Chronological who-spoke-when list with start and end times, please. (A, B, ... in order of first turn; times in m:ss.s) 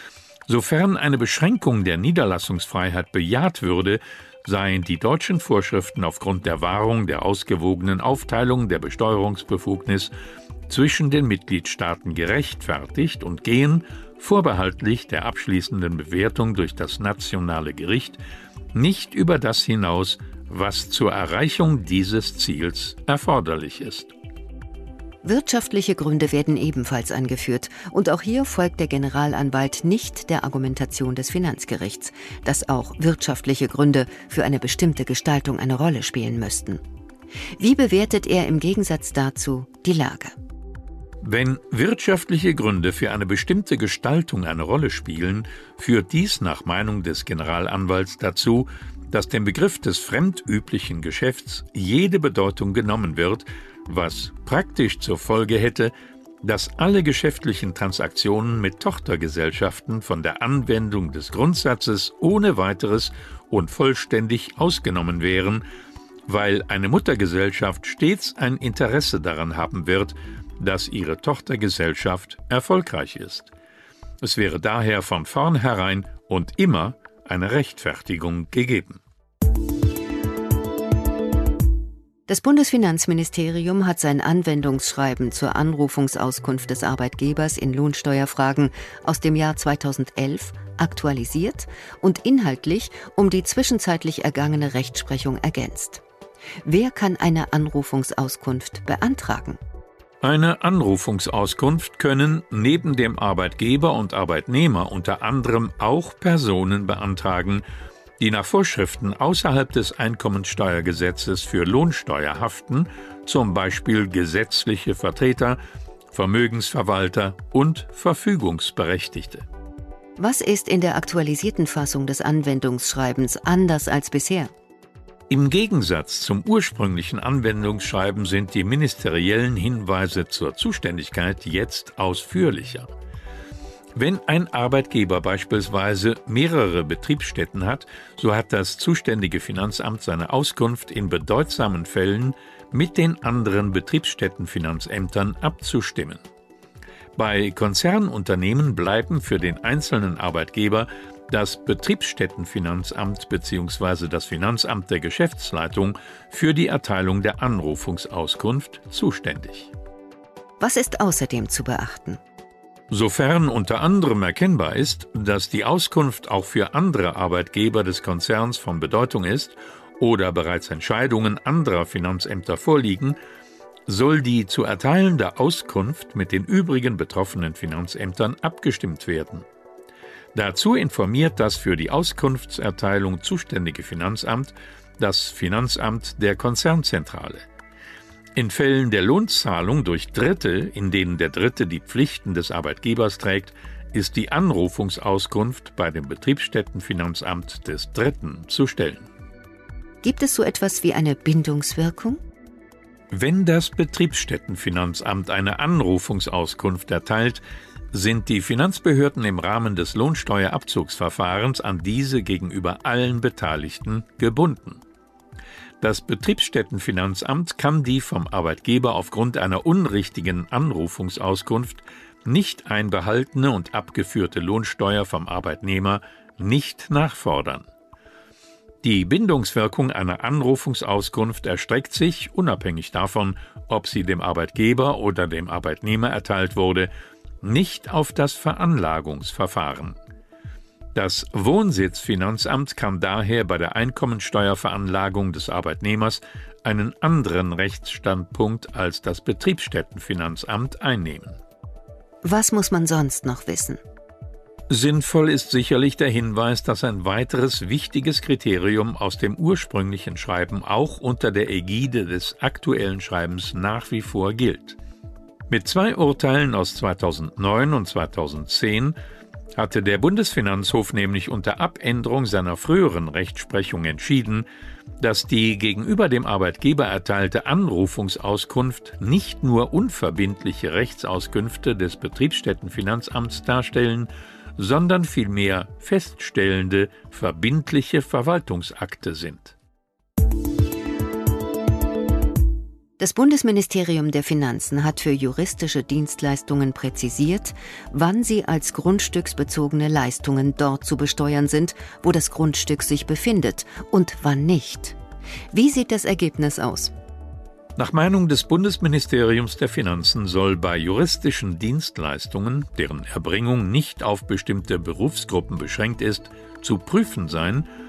0:00.5-0:10.1 A
0:10.7-0:18.2 A
0:18.7-0:24.1 A
0:25.2-0:36.8 B
0:37.6-0:40.3 B
0:41.2-1:05.6 A
1:06.3-1:13.5 A
1:14.2-1:19.0 A
1:22.3-1:36.0 B
1:36.6-1:39.6 B
1:40.2-1:47.6 A
1:48.2-1:55.6 A
1:56.1-1:59.4 A
2:00.2-2:04.5 B
2:05.3-2:12.9 A
2:14.0-2:26.2 A
2:27.2-2:39.7 A
2:40.6-2:42.2 B
2:42.9-2:53.2 A
2:53.9-2:59.4 A
3:00.3-3:07.4 A
3:08.4-3:19.1 A
3:20.0-3:22.2 B
3:23.1-3:34.8 A
3:35.8-3:47.7 A
3:48.8-3:56.9 A
3:57.4-4:00.0 A
4:00.9-4:11.4 A
4:12.2-4:13.8 B
4:14.7-4:24.8 A
4:25.5-4:29.0 A
4:29.6-4:34.4 A
4:35.0-4:49.5 A
4:53.0-5:05.0 B
5:05.5-5:06.9 B
5:07.8-5:17.6 A